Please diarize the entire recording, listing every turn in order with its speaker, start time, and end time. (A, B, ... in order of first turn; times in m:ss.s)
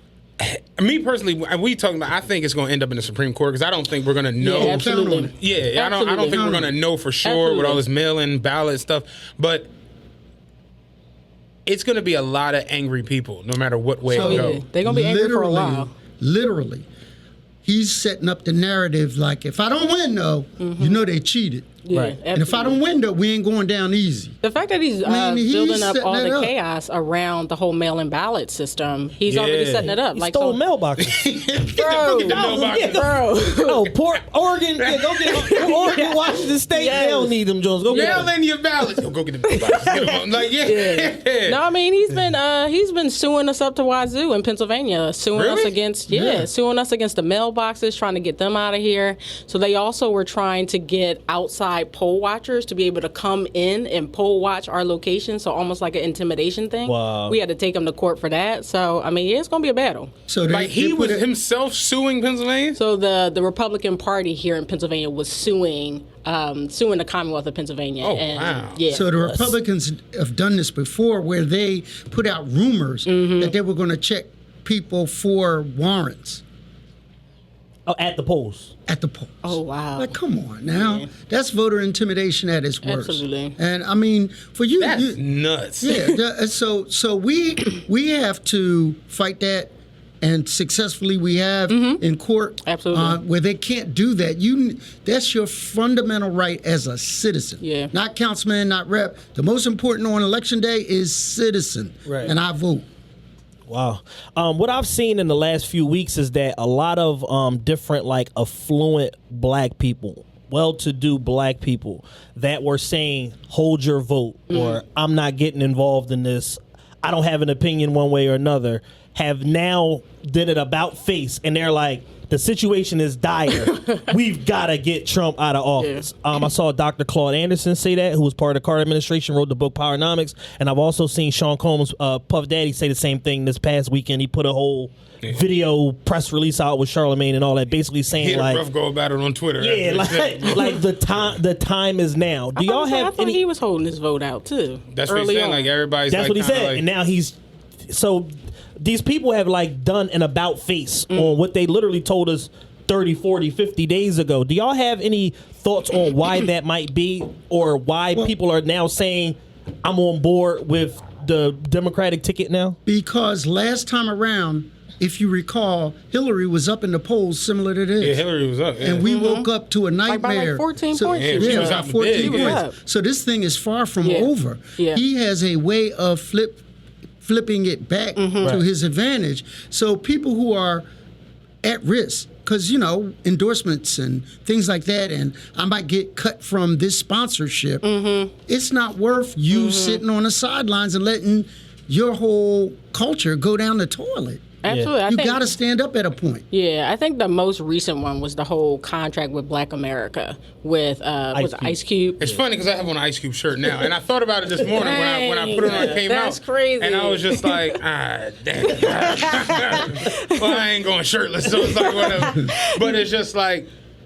0:00.4-0:09.7 A
0:04.4-0:06.7 B
0:04.5-0:05.3 C
0:06.3-0:06.7 C
0:07.2-0:07.8 B
0:11.7-0:14.6 A
0:14.1-0:16.9 C
0:14.1-0:15.9 B
0:17.6-0:21.8 C
0:20.6-0:21.0 B
0:21.8-0:22.8 B
0:21.9-0:22.2 D
0:22.3-0:24.4 C
0:24.4-0:30.6 B
0:25.0-0:26.5 C
0:29.3-0:30.0 A
0:29.8-0:31.2 D
0:31.0-0:33.3 A
0:31.7-0:33.9 B
0:32.3-0:38.3 D
0:34.8-0:35.3 A
0:35.3-0:38.3 B
0:37.9-0:41.6 A
0:39.4-0:40.1 B
0:40.6-1:00.1 B
0:45.4-0:45.8 A
0:56.8-0:57.4 D
1:00.3-1:01.3 C
1:00.5-1:02.8 A
1:02.8-1:09.1 B
1:08.0-1:08.8 A
1:08.9-1:16.4 C
1:09.1-1:09.6 D
1:13.1-1:13.6 B
1:17.9-1:18.7 D
1:18.9-1:25.2 C
1:19.4-1:20.1 B
1:20.8-1:21.1 B
1:22.8-1:23.6 B
1:24.8-1:25.9 A
1:25.8-1:42.9 C
1:25.9-1:26.2 B
1:31.7-1:32.0 B
1:32.6-1:33.2 B
1:37.6-1:37.9 B
1:42.1-1:42.4 D
1:43.7-2:18.6 D
1:54.5-1:54.8 B
2:05.8-2:06.0 B
2:18.2-2:20.7 A
2:19.6-2:23.4 D
2:22.6-2:25.7 B
2:24.9-2:26.8 A
2:26.1-2:27.4 D
2:27.9-2:42.8 D
2:31.1-2:31.4 B
2:42.9-2:48.2 C
2:48.0-2:49.0 A
2:48.8-2:56.6 C
2:49.0-2:49.5 B
2:50.1-2:52.8 B
2:51.1-2:52.6 A
2:54.0-2:55.0 B
2:57.2-3:00.9 C
2:58.2-2:58.6 B
3:01.6-3:07.8 C
3:07.8-3:08.3 B
3:08.5-3:14.5 C
3:09.5-3:10.0 B
3:14.6-3:15.5 B
3:14.7-3:14.9 D
3:15.1-3:16.4 C
3:16.5-3:22.2 B
3:21.3-3:21.8 D
3:22.2-3:33.7 A
3:24.6-3:27.8 B
3:28.8-3:30.6 B
3:31.6-3:33.0 B